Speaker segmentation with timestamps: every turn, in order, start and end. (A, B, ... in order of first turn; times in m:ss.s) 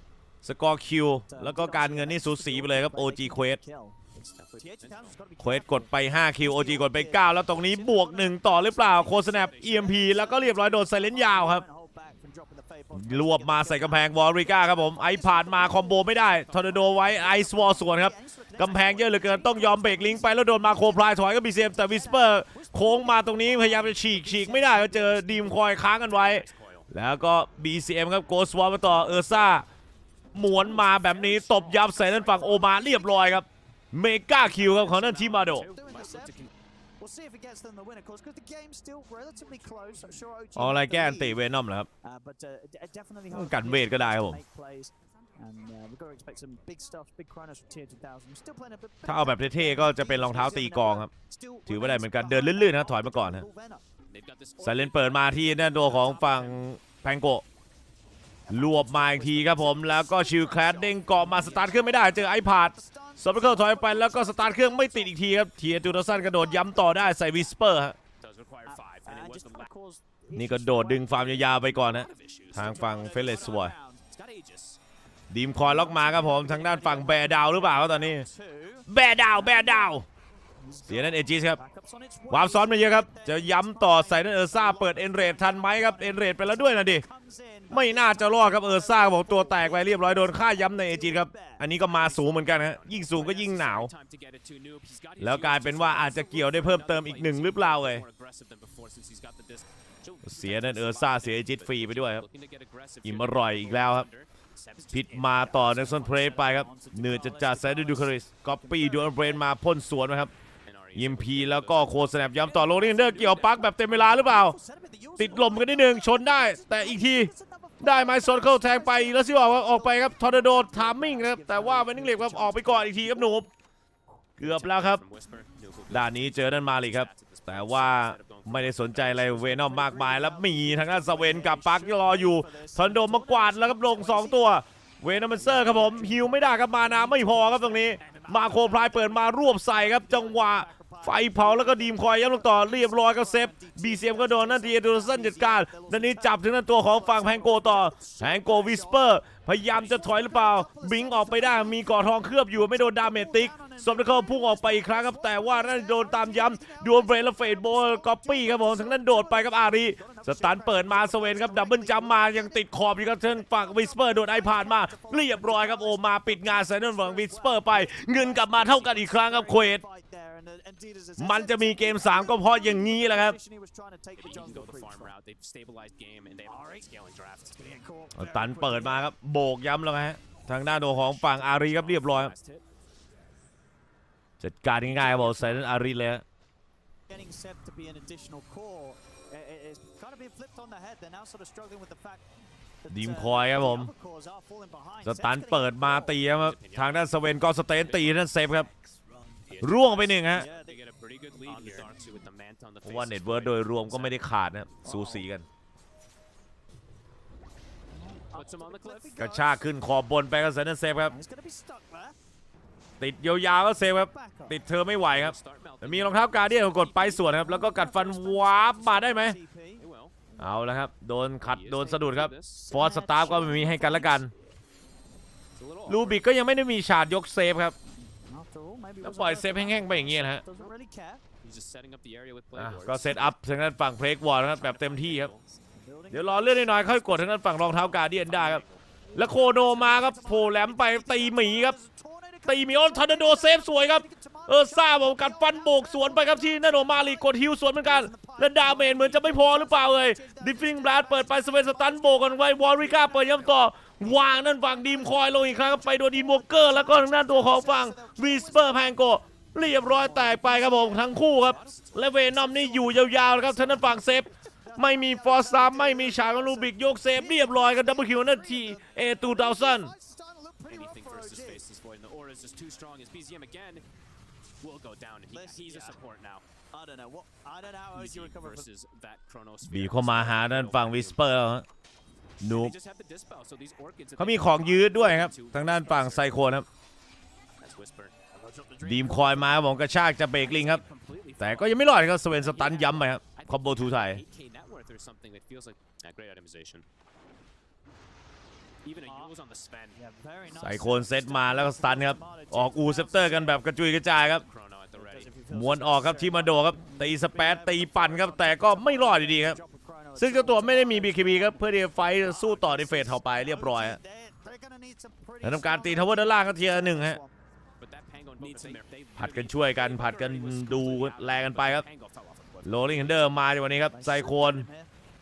0:00.4-0:03.6 A
0:01.3-0:08.6 B
0:04.2-0:05.2 C
0:05.4-0:11.6 A
0:08.8-0:10.2 C
0:09.7-0:16.2 B
0:12.9-0:29.6 A
0:16.9-0:21.0 B
0:21.8-0:25.7 B
0:25.8-0:26.9 C
0:30.3-0:35.6 A
0:31.2-0:31.7 C
0:32.2-0:33.3 B
0:34.6-0:36.4 B
0:35.3-0:36.5 C
0:37.0-0:41.4 B
0:40.5-0:41.9 A
0:42.0-0:53.8 B
0:43.3-0:44.4 A
0:49.0-0:51.1 A
0:51.7-0:53.4 A
0:54.1-0:56.6 C
0:54.6-0:57.4 A
0:58.5-1:08.0 A
0:58.6-1:05.0 B
1:08.2-1:09.7 C
1:08.7-1:11.2 B
1:10.3-1:13.7 A
1:11.1-1:13.0 C
1:12.6-1:14.0 B
1:14.1-1:14.8 C
1:15.3-1:18.3 A
1:15.8-1:18.9 B
1:18.9-1:20.0 A
1:20.6-1:31.7 B
1:20.9-1:21.6 A
1:22.3-1:27.0 A
1:27.7-1:33.9 A
1:31.9-1:45.6 C
1:35.2-1:38.0 A
1:40.2-1:42.2 A
1:43.0-1:44.0 A
1:44.9-1:50.3 A
1:45.3-1:49.4 B
1:50.6-1:53.6 C
1:50.9-1:54.6 A
1:53.9-2:03.4 B
1:55.2-2:03.5 A
2:04.4-2:05.0 A
2:04.4-2:09.3 C
2:05.9-2:49.8 A
2:09.4-2:14.5 B
2:15.1-2:26.3 B
2:26.9-2:29.1 B
2:29.7-2:32.0 B
2:33.0-2:55.1 B
2:51.2-2:53.4 A
2:54.2-2:57.7 C
2:56.5-2:56.8 B
2:57.6-2:59.0 B
2:58.1-3:02.3 A
3:01.2-3:02.6 C
3:04.4-3:06.2 A
3:07.1-3:12.2 B
3:12.9-3:16.2 B
3:12.9-3:13.9 A
3:15.0-3:18.7 A
3:16.3-3:18.4 C
3:19.5-3:24.2 C
3:19.6-3:20.5 A
3:20.3-3:20.8 B
3:21.4-3:22.0 B
3:22.8-3:25.4 A
3:24.8-3:25.2 C
3:24.9-3:25.2 B
3:28.0-3:29.6 B
3:28.3-3:29.2 C
3:29.2-3:31.1 A
3:31.1-3:32.2 B
3:33.0-3:39.4 A
3:34.0-3:34.6 B
3:35.1-3:37.2 C
3:37.2-3:39.8 B
3:39.8-3:40.2 C
3:40.4-3:44.3 A
3:41.4-3:42.7 C
3:42.7-3:44.2 B
3:45.6-3:46.2 C
3:45.9-3:47.8 A
3:48.0-3:51.2 B
3:49.0-3:50.4 A
3:51.4-3:53.3 C
3:52.6-3:55.3 A
3:54.5-3:55.4 C
3:55.7-3:57.2 B
3:56.1-3:58.6 A
3:57.9-3:58.8 C
3:59.1-4:18.9 B
3:59.1-4:01.8 A
4:02.5-4:29.9 A
4:19.8-4:31.6 B
4:21.5-4:22.0 C
4:30.7-4:33.8 C
4:34.6-4:36.4 C
4:35.3-4:36.0 B
4:36.7-4:38.6 B
4:37.9-4:41.2 C
4:39.6-4:41.6 A
4:42.4-4:42.7 A
4:42.4-4:46.3 C
4:44.2-4:46.6 A
4:47.6-4:48.2 C
4:48.4-4:49.5 B
4:48.8-4:50.8 A
4:50.4-4:56.8 C
4:51.4-4:54.2 A
4:58.8-5:00.0 C
4:59.0-4:59.3 B
4:59.9-5:03.6 B
5:00.5-5:04.4 A
5:04.4-5:05.3 C
5:05.0-5:11.6 B
5:05.5-5:09.6 A
5:10.2-5:14.0 A
5:13.2-5:17.3 B
5:15.4-5:17.2 A
5:17.8-5:22.9 C
5:19.2-5:21.8 A
5:22.6-5:24.7 A
5:23.9-5:24.9 B